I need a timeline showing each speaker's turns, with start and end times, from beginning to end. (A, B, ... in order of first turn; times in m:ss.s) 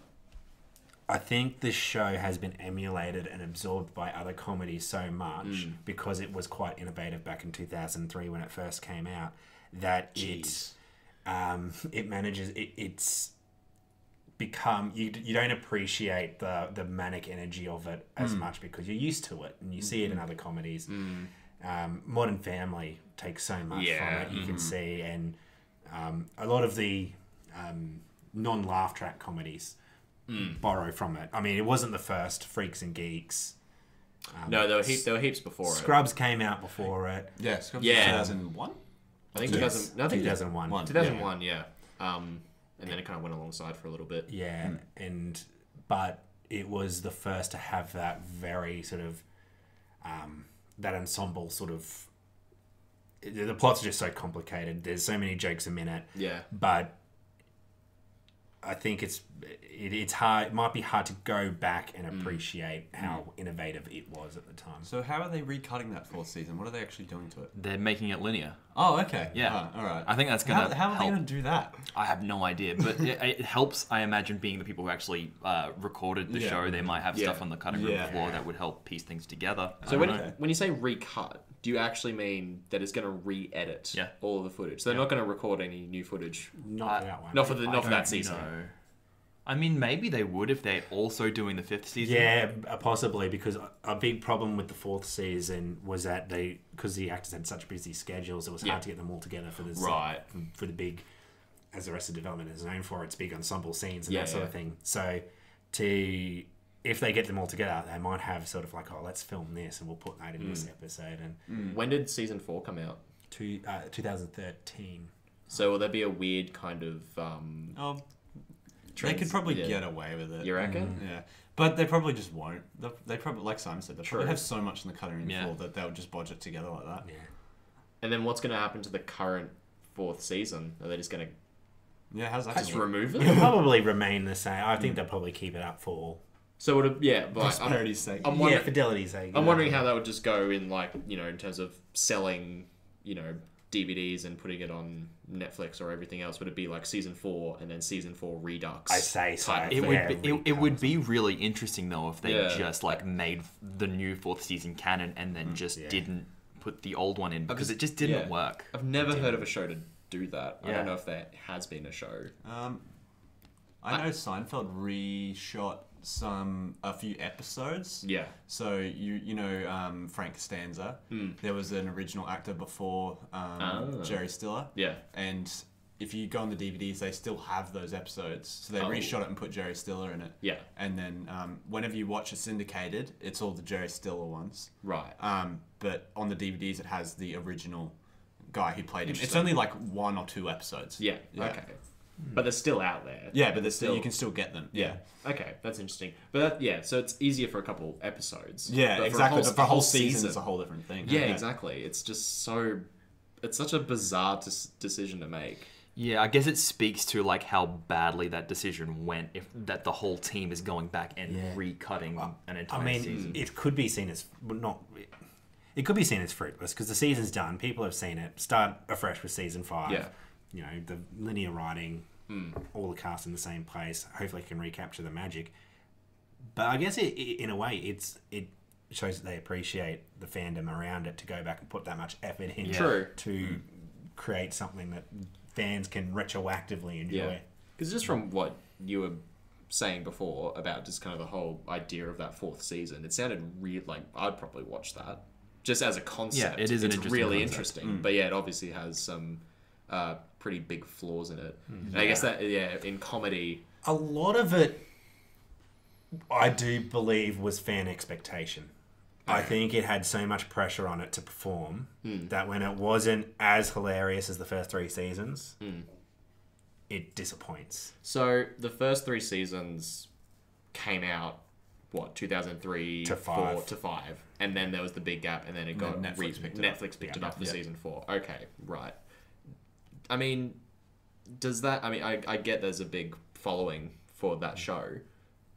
0:01.1-0:10.7 A
0:05.4-0:05.8 B
0:10.2-0:10.7 B
0:11.2-0:13.3 A
0:14.4-0:29.8 A
0:20.9-0:21.3 B
0:23.7-0:24.7 B
0:24.3-0:24.7 C
0:30.3-0:30.6 B
0:30.4-0:33.6 A
0:34.4-0:35.1 A
0:34.4-0:36.0 B
0:35.7-0:38.3 A
0:37.4-0:39.9 C
0:37.8-0:38.5 B
0:39.3-0:44.3 B
0:39.4-0:41.3 A
0:40.7-0:41.2 C
0:44.3-0:49.2 A
0:50.0-0:52.1 A
0:53.2-0:57.0 A
0:56.2-0:56.5 B
0:58.6-1:04.9 A
1:02.1-1:02.4 B
1:04.8-1:07.5 C
1:07.5-1:20.2 D
1:08.7-1:11.8 C
1:16.3-1:16.6 C
1:17.1-1:17.4 B
1:17.7-1:18.4 C
1:19.8-1:26.6 B
1:19.8-1:20.4 C
1:26.6-1:28.2 A
1:26.9-1:28.7 D
1:27.1-1:28.5 B
1:29.5-1:32.3 D
1:32.0-1:41.0 A
1:39.7-1:40.2 B
1:41.7-1:51.4 A
1:44.1-1:44.5 B
1:50.4-1:50.7 B
1:51.5-1:53.0 B
1:51.5-1:51.8 C
1:53.3-1:55.1 A
1:55.5-1:57.8 B
1:57.8-1:58.0 C
1:58.9-2:01.0 B
1:59.0-2:07.1 C
2:00.6-2:01.0 A
2:04.0-2:04.4 B
2:05.2-2:05.5 D
2:08.0-2:11.3 B
2:12.1-2:13.5 C
2:12.5-2:13.5 B
2:12.6-2:16.2 A
2:16.6-2:30.1 B
2:17.4-2:18.4 C
2:18.2-2:19.8 A
2:28.9-2:31.0 A
2:29.7-2:39.4 D
2:32.2-2:33.0 B
2:35.8-2:36.0 A
2:37.5-2:38.3 C
2:38.0-2:42.3 B
2:40.6-2:40.9 D
2:42.4-2:42.8 C
2:43.8-3:11.6 C
2:48.0-2:48.4 B
2:51.1-2:51.4 B
2:53.6-2:55.0 B
2:58.8-2:59.2 B
3:04.8-3:05.2 B
3:09.1-3:09.6 B
3:11.0-3:20.5 B
3:13.3-3:15.0 C
3:18.7-3:21.4 C
3:21.0-3:22.9 B
3:23.4-3:25.7 B
3:26.0-3:33.4 D
3:32.7-3:35.1 A
3:33.1-3:33.4 B
3:35.8-3:45.5 A
3:39.9-3:40.1 B
3:42.3-3:42.6 B
3:46.5-3:57.4 A
3:52.6-3:53.1 D
3:52.6-3:53.1 B
3:57.1-4:13.6 B
4:06.3-4:07.8 D
4:07.8-4:08.1 C
4:11.7-4:12.3 A
4:13.8-4:14.9 A
4:16.3-4:18.7 A
4:19.3-4:19.6 B
4:19.3-4:25.6 A
4:22.0-4:22.3 B
4:25.6-4:25.9 B
4:26.9-4:27.9 A
4:28.0-4:30.1 B
4:30.7-4:39.1 B
4:33.0-4:33.7 A
4:35.7-4:36.8 C
4:37.0-4:37.4 A
4:40.1-4:40.7 B
4:41.2-4:45.1 B